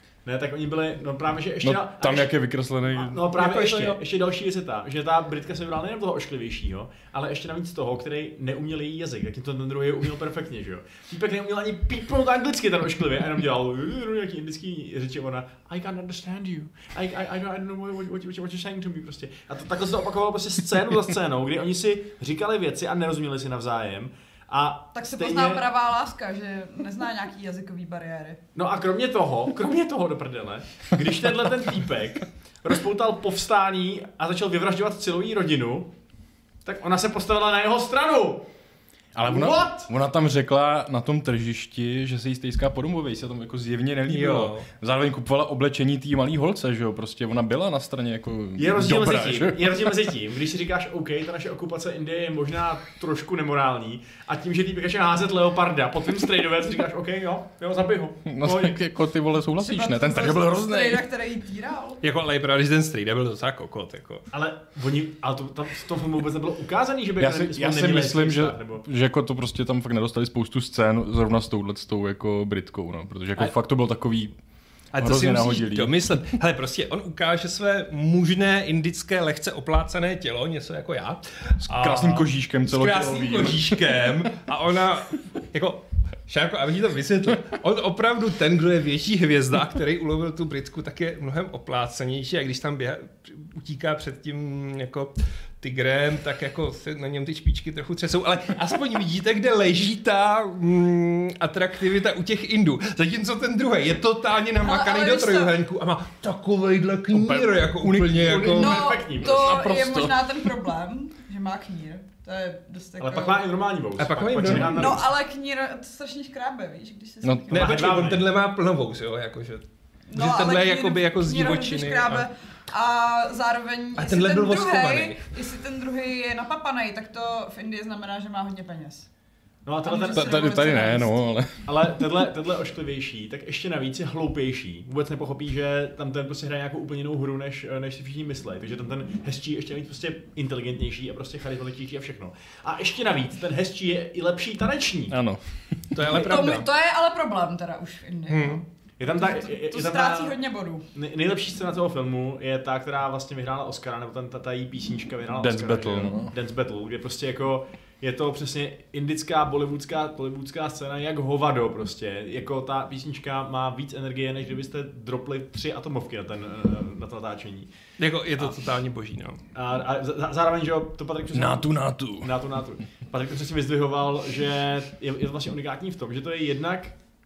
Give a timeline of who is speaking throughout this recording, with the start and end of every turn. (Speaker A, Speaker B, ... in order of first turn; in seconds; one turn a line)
Speaker A: 0.2-2.3
Speaker B: 1.6-3.3
Speaker A: 2.9-25.6
Speaker C: 3.4-4.0
Speaker D: 24.9-28.4
Speaker A: 28.6-35.9
Speaker A: 36.6-38.5
Speaker B: 39.2-49.9
Speaker A: 39.2-39.9
Speaker C: 44.1-44.7
Speaker A: 48.6-58.8
Speaker B: 58.3-61.0
Speaker D: 59.6-62.0
Speaker C: 62.0-64.3
Speaker A: 64.3-68.8
Speaker B: 67.2-74.3
Speaker C: 74.9-108.9
Speaker B: 75.0-76.0
Speaker B: 81.6-84.3
Speaker D: 104.6-105.6
Speaker B: 107.1-110.5
Speaker A: 108.1-109.6
Speaker D: 108.5-113.5
Speaker A: 113.0-115.1
Speaker C: 114.0-115.0
Speaker D: 114.6-117.7
Speaker B: 117.2-117.6
Speaker A: 117.5-118.3
Speaker C: 117.5-122.3
Speaker D: 120.1-129.1
Speaker C: 124.0-125.2
Speaker A: 129.7-130.4
Speaker D: 129.8-131.2
Speaker B: 130.1-131.8
Speaker A: 131.7-145.2
Speaker B: 145.1-145.8
Speaker C: 145.9-146.7
Speaker D: 146.0-150.9
Speaker C: 148.3-148.6
Speaker A: 149.0-150.4
Speaker A: 150.9-167.7
Speaker B: 155.4-156.3
Speaker C: 168.0-169.4
Speaker A: 169.5-177.0
Speaker B: 171.3-172.3